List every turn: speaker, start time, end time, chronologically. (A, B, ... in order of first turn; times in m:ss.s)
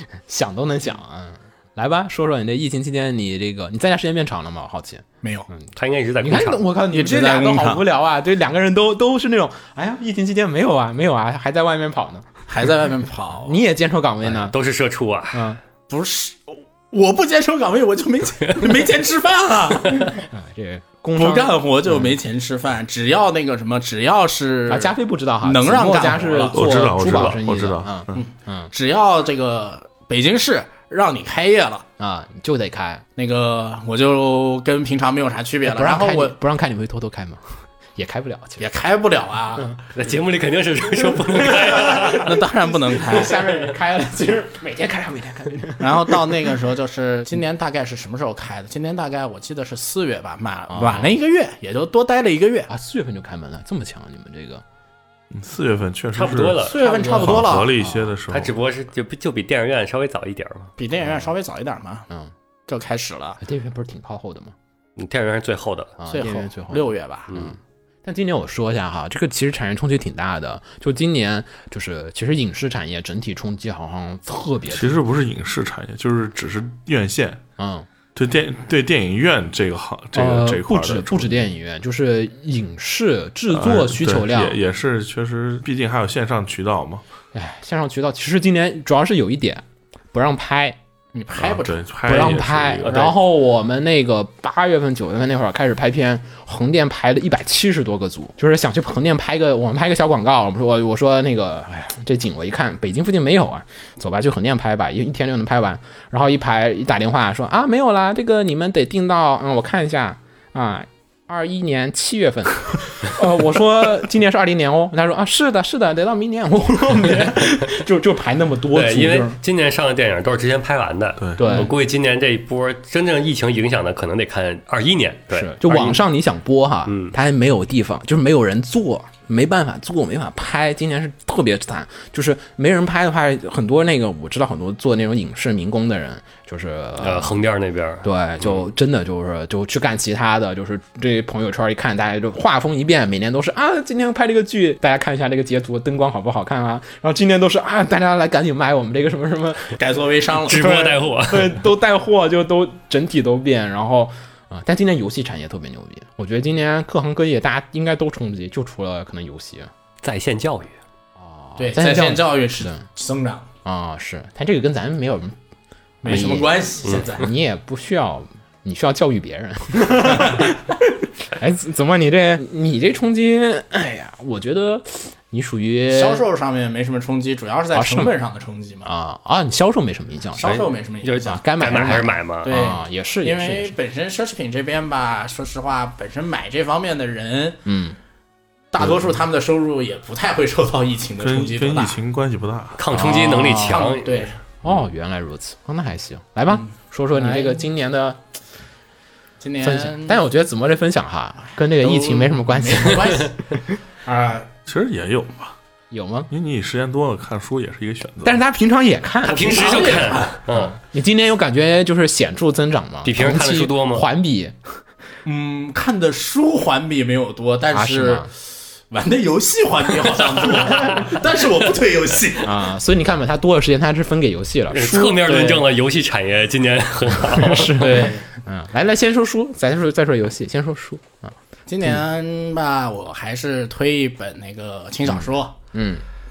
0:00.3-0:12.3 A
0:05.2-0:05.5 B
0:05.7-0:06.6 C
0:06.9-0:07.8 B
0:12.5-0:13.6 B
0:13.4-0:14.5 A
0:14.2-0:15.5 C
0:15.3-0:15.6 A
0:15.9-0:20.2 B
0:20.3-0:22.1 A
0:21.2-0:26.6 B
0:24.7-0:28.7 A
0:26.5-0:28.2 D
0:27.0-0:27.3 C
0:28.1-0:31.8 B
0:32.0-0:33.0 A
0:33.2-0:36.3 B
0:35.6-0:38.7 A
0:38.6-0:39.7 B
0:39.9-0:42.4 C
0:41.0-0:46.4 A
0:42.2-0:43.4 B
0:45.8-0:52.7 B
0:50.7-0:51.1 A
0:52.7-0:54.6 A
0:55.3-0:58.6 D
0:56.1-0:57.0 C
0:56.6-0:57.7 B
0:56.8-0:58.1 A
0:58.3-1:00.7 C
1:00.8-1:02.1 B
1:01.0-1:01.3 A
1:02.7-1:03.4 B
1:03.4-1:04.5 A
1:05.0-1:05.9 C
1:06.0-1:15.0 A
1:06.1-1:07.4 B
1:14.7-1:17.4 D
1:17.6-1:17.9 A
1:18.1-1:21.4 D
1:20.1-1:24.6 A
1:23.5-1:27.0 D
1:27.3-1:30.8 A
1:31.1-1:31.8 B
1:31.4-1:33.1 D
1:32.1-1:59.4 A
1:32.8-1:33.1 C
1:58.7-2:06.0 C
2:01.2-2:01.5 D
2:01.4-2:01.7 A
2:05.3-2:17.4 A
2:06.9-2:07.1 C
2:17.0-2:18.5 C
2:18.0-2:29.7 A
2:29.7-2:31.0 B
2:30.4-2:31.6 C
2:30.5-2:39.7 A
2:40.0-2:40.8 C
2:41.2-2:42.8 A
2:41.6-2:43.4 B
2:43.6-2:45.4 A
2:46.0-2:47.3 B
2:46.0-2:56.2 A
2:46.8-2:47.1 C
2:55.9-2:58.9 B
2:57.7-2:58.1 A
2:58.8-3:00.7 A
3:00.4-3:01.4 B
3:00.4-3:02.6 C
3:01.2-3:03.7 A
3:02.4-3:07.6 B
3:07.6-3:08.0 A
3:08.7-3:12.0 B
3:11.2-3:12.8 D
3:12.8-3:14.3 C
3:12.9-3:13.9 A
3:13.5-3:14.4 B
3:14.6-3:18.2 A
3:16.5-3:17.7 B
3:19.4-3:20.2 B
3:19.6-3:23.6 A
3:21.8-3:23.4 B
3:24.0-3:24.5 B
3:24.7-3:25.5 D
3:25.9-3:26.3 A
3:26.3-3:28.4 D
3:28.2-3:34.7 A
3:29.2-3:30.4 B
3:29.2-3:30.8 C
3:33.0-3:34.0 C
3:35.2-3:38.3 B
3:37.7-3:38.3 A
3:38.9-3:42.5 B
3:40.6-3:41.1 C
3:42.4-3:45.6 A
3:44.7-3:48.0 C
3:45.3-3:45.6 B
3:47.3-3:51.3 A
3:47.8-3:48.3 B
3:51.7-3:55.5 B
3:55.0-3:56.0 A